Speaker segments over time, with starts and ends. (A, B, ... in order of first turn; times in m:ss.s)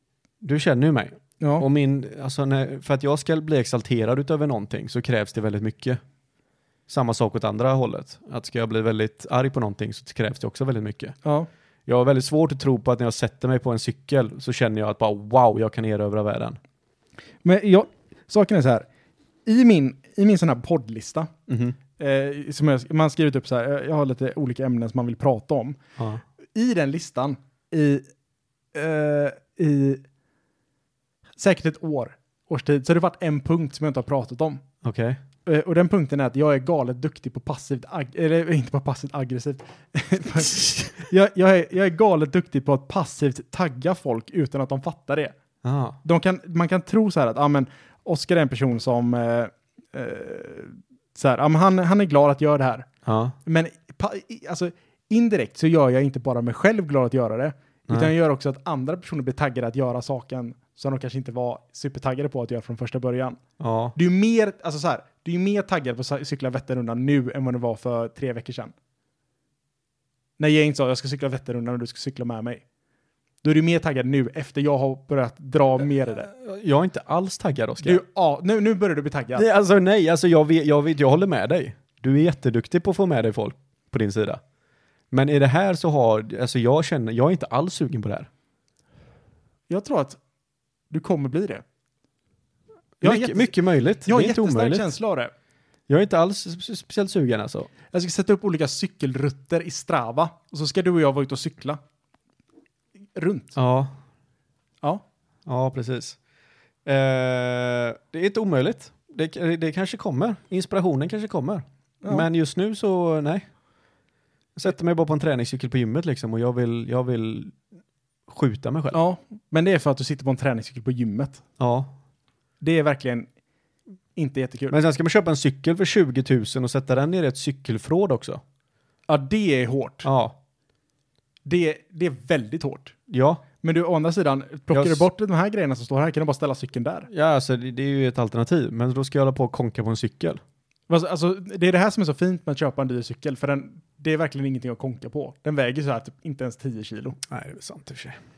0:00.4-0:06.0 A
0:01.4-0:01.6 B
0:06.9-0:11.1 A
0:11.8-0:16.6 A
0:17.4-0:18.8 B
0:19.4-0:21.3 B
0:21.5-0:21.8 A
0:22.0-0:25.8 B
0:26.0-0:26.2 A
0:26.5-0:28.0 B
0:28.7-0:30.0 B
0:31.4-0:34.6 B
0:34.8-0:35.2 A
0:35.4-0:45.3 B
0:45.6-0:46.0 A
0:46.0-0:52.9 B
0:53.0-0:53.4 A
0:53.4-1:03.4 B
1:03.6-1:04.0 A
1:04.0-1:08.7 B
1:10.4-1:12.6 B
1:13.4-1:16.3 B
1:16.3-1:18.0 A
1:17.8-1:19.4 B
1:19.4-1:24.4 A
1:25.1-1:28.3 A
1:29.7-1:30.2 B
1:30.9-1:31.6 B
1:33.0-1:33.5 B
1:33.0-1:34.9 A
1:34.0-1:35.3 B
1:35.9-1:37.7 A
1:37.9-1:41.8 B
1:43.2-1:43.6 B
1:43.6-1:43.9 A
1:45.4-1:46.2 A
1:46.8-1:53.4 A
1:54.6-1:57.6 A
1:58.3-1:59.0 A
1:58.9-2:01.4 B
2:01.6-2:01.9 A
2:02.6-2:03.3 B
2:04.2-2:04.8 B
2:04.7-2:08.4 A
2:09.1-2:10.1 B
2:10.0-2:10.4 A
2:11.4-2:12.9 B
2:13.1-2:13.4 A
2:13.6-2:17.1 B
2:14.7-2:15.0 A
2:17.1-2:20.4 A
2:20.9-2:27.2 B
2:27.3-2:28.2 A